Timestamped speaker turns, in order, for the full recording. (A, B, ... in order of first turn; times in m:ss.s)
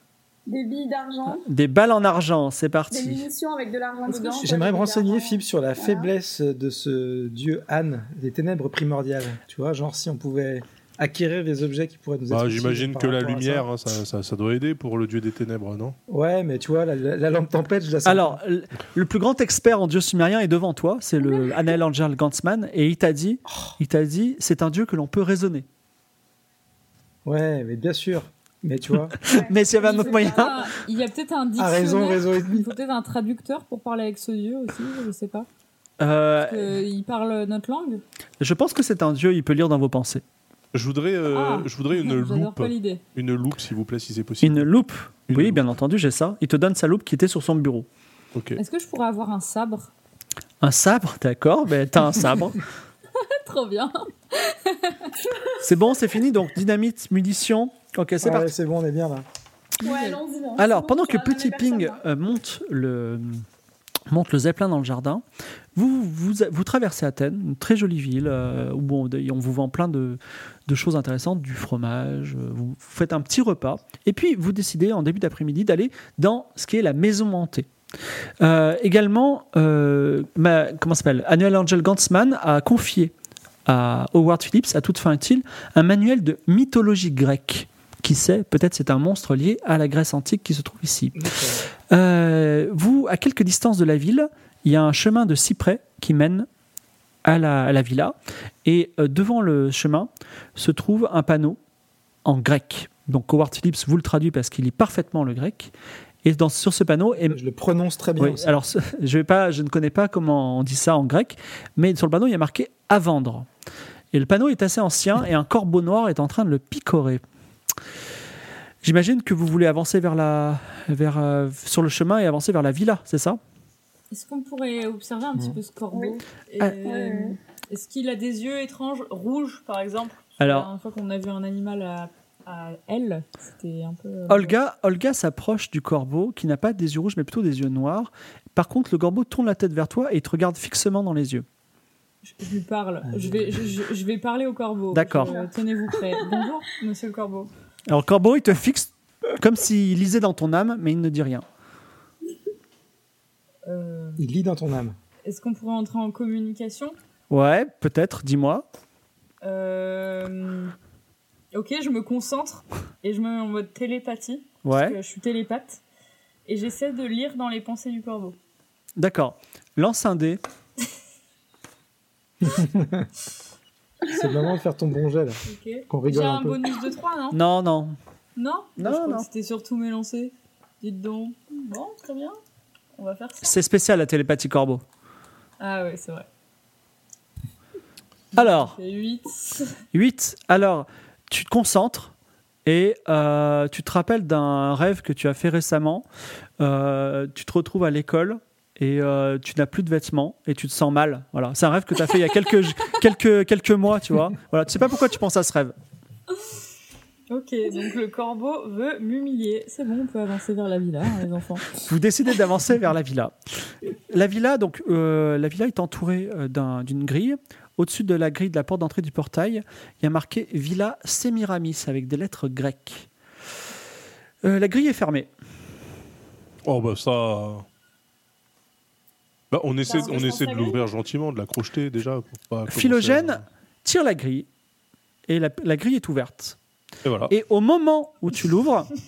0:00.5-0:01.4 A
0:01.3-0:03.3 B
0:02.9-0:06.1 A
0:04.1-0:04.5 C
0:04.4-0:13.7 D
0:12.3-0:16.0 E
0:16.1-0:18.4 D
0:18.0-0:25.7 B
0:27.2-0:29.3 D
0:29.2-0:30.8 A
0:29.2-0:30.6 B
0:29.8-0:35.5 C
0:31.6-0:32.7 D
0:36.0-0:36.8 B
0:36.4-0:38.0 C
0:38.4-0:40.2 B
0:40.7-0:44.7 E
0:41.3-0:43.0 C
0:44.4-0:47.9 B
0:45.3-0:45.6 E
0:48.4-0:48.6 E
0:48.6-0:49.9 C
0:50.6-0:52.6 B
0:53.1-0:55.2 C
0:55.6-0:58.5 B
0:58.2-0:59.2 D
0:59.8-1:00.2 C
0:59.8-1:02.0 A
1:00.6-1:03.4 B
1:04.1-1:05.2 B
1:05.8-1:17.7 B
1:18.4-1:23.1 B
1:23.7-1:31.4 B
1:31.2-1:31.7 D
1:31.9-1:36.5 B
1:37.2-1:41.6 B
1:42.2-1:45.7 B
1:46.2-1:47.4 B
1:47.2-1:48.5 D
1:48.2-1:53.5 B
1:54.1-1:57.2 B
1:58.8-2:03.4 B
2:04.1-2:14.6 C
2:05.9-2:06.2 A
2:06.8-2:07.4 A
2:10.4-2:10.7 B
2:14.3-2:21.5 B
2:22.2-2:27.5 C
2:23.1-2:23.7 D
2:24.9-2:25.4 B
2:25.2-2:26.3 A
2:27.9-2:31.5 B
2:33.7-2:34.3 C
2:34.2-2:35.0 D
2:35.2-2:37.0 C
2:37.3-2:38.7 B
2:39.4-2:40.7 C
2:41.5-2:45.8 C
2:44.6-2:45.0 B
2:46.5-2:48.4 C
2:49.0-2:50.4 B
2:52.4-2:53.1 D
2:54.1-2:56.6 D
2:55.4-2:57.4 C
2:57.3-2:58.0 B
2:58.4-3:02.4 C
2:58.8-2:59.3 B
3:03.0-3:03.6 C
3:03.4-3:04.8 B
3:05.6-3:06.3 C
3:08.3-3:08.8 B
3:08.3-3:09.8 C
3:09.9-3:12.1 B
3:12.6-3:16.1 B
3:16.6-3:25.7 B
3:27.3-3:31.8 C
3:31.8-3:43.1 B
3:44.4-3:45.3 B
3:46.6-3:47.7 E
3:49.5-3:53.4 E
3:49.8-3:50.8 A
3:52.7-3:54.5 B
3:55.3-3:56.6 B
3:57.0-3:57.3 E
3:57.3-3:58.9 B